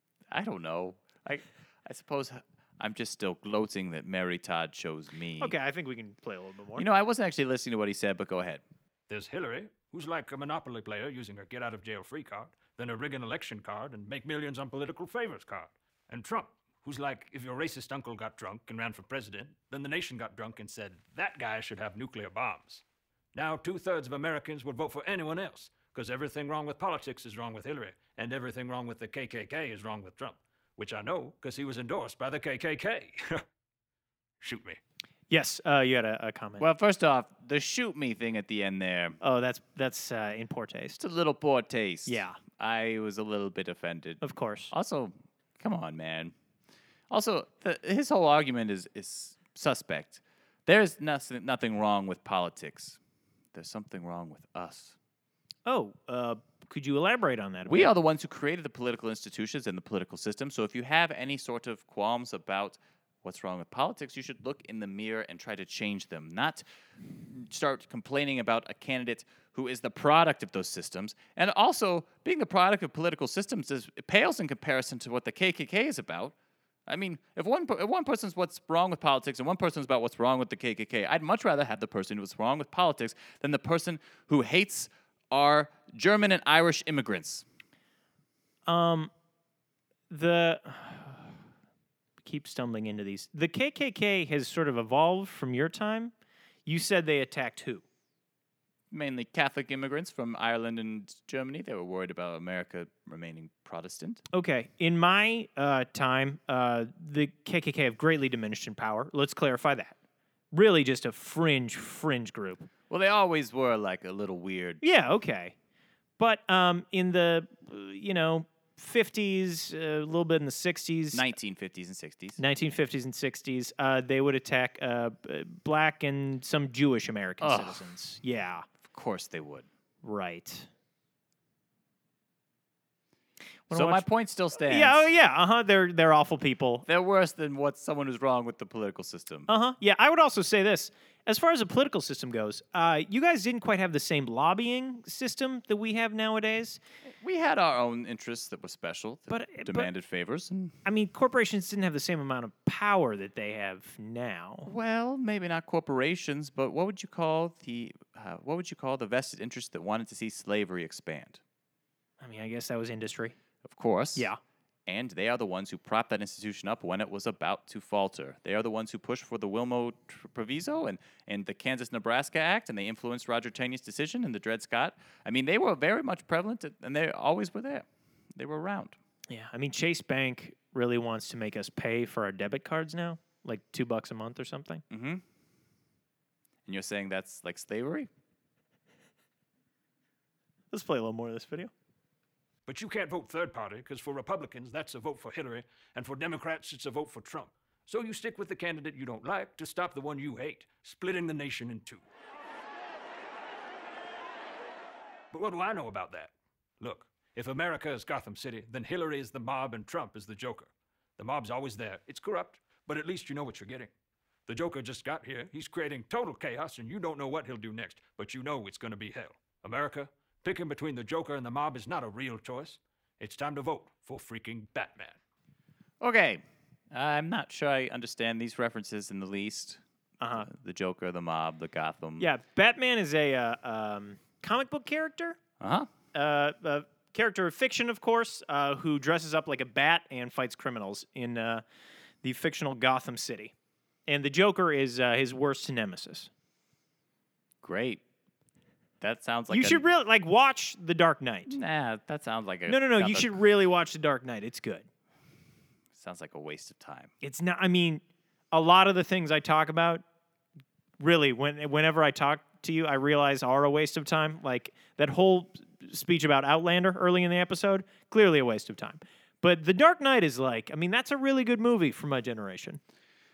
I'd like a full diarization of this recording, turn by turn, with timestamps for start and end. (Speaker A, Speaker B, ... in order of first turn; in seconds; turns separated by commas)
Speaker A: 0.3-5.5, Speaker B: 5.4-6.8, Speaker A: 6.8-8.6, Speaker C: 9.1-22.8, Speaker C: 23.3-33.4, Speaker C: 34.4-34.8, Speaker B: 35.3-36.6, Speaker A: 36.6-39.2, Speaker B: 39.2-41.0, Speaker A: 41.0-46.3, Speaker B: 42.1-42.4, Speaker B: 44.2-44.7, Speaker A: 47.1-53.0, Speaker A: 53.5-55.0, Speaker B: 55.7-57.9, Speaker A: 57.7-66.6, Speaker A: 67.2-76.3, Speaker A: 76.9-87.5, Speaker B: 88.7-89.1, Speaker B: 90.1-91.3, Speaker B: 92.2-96.1, Speaker B: 96.7-97.8, Speaker A: 98.9-104.2, Speaker B: 104.3-110.0, Speaker B: 110.5-112.7, Speaker A: 112.9-114.8, Speaker B: 114.8-115.5, Speaker B: 116.2-121.2, Speaker A: 121.1-122.4, Speaker B: 122.4-128.7, Speaker A: 127.4-127.9, Speaker A: 128.9-129.7, Speaker B: 130.0-130.7, Speaker B: 133.7-134.0, Speaker A: 133.7-135.1, Speaker B: 134.6-136.9, Speaker A: 136.9-139.5, Speaker B: 139.5-146.8, Speaker A: 147.1-150.8, Speaker B: 149.3-149.9, Speaker B: 150.8-154.7, Speaker A: 154.7-161.4, Speaker B: 162.2-163.3, Speaker A: 163.7-164.3, Speaker A: 164.9-179.0, Speaker B: 179.3-184.8, Speaker A: 184.9-185.2, Speaker A: 186.7-188.1, Speaker B: 190.7-191.7, Speaker C: 192.7-202.0, Speaker C: 205.3-213.9, Speaker C: 214.5-225.2, Speaker A: 226.0-226.4, Speaker A: 226.9-229.8, Speaker B: 230.2-230.5, Speaker A: 230.4-232.3, Speaker B: 232.2-235.4, Speaker A: 235.6-235.9, Speaker B: 236.1-241.6, Speaker B: 242.2-243.5, Speaker B: 244.1-246.3, Speaker A: 247.6-248.0, Speaker A: 249.0-249.8, Speaker B: 249.5-251.6, Speaker A: 251.5-253.4, Speaker B: 252.7-254.9, Speaker A: 255.9-257.1, Speaker B: 257.2-260.0, Speaker B: 261.0-272.8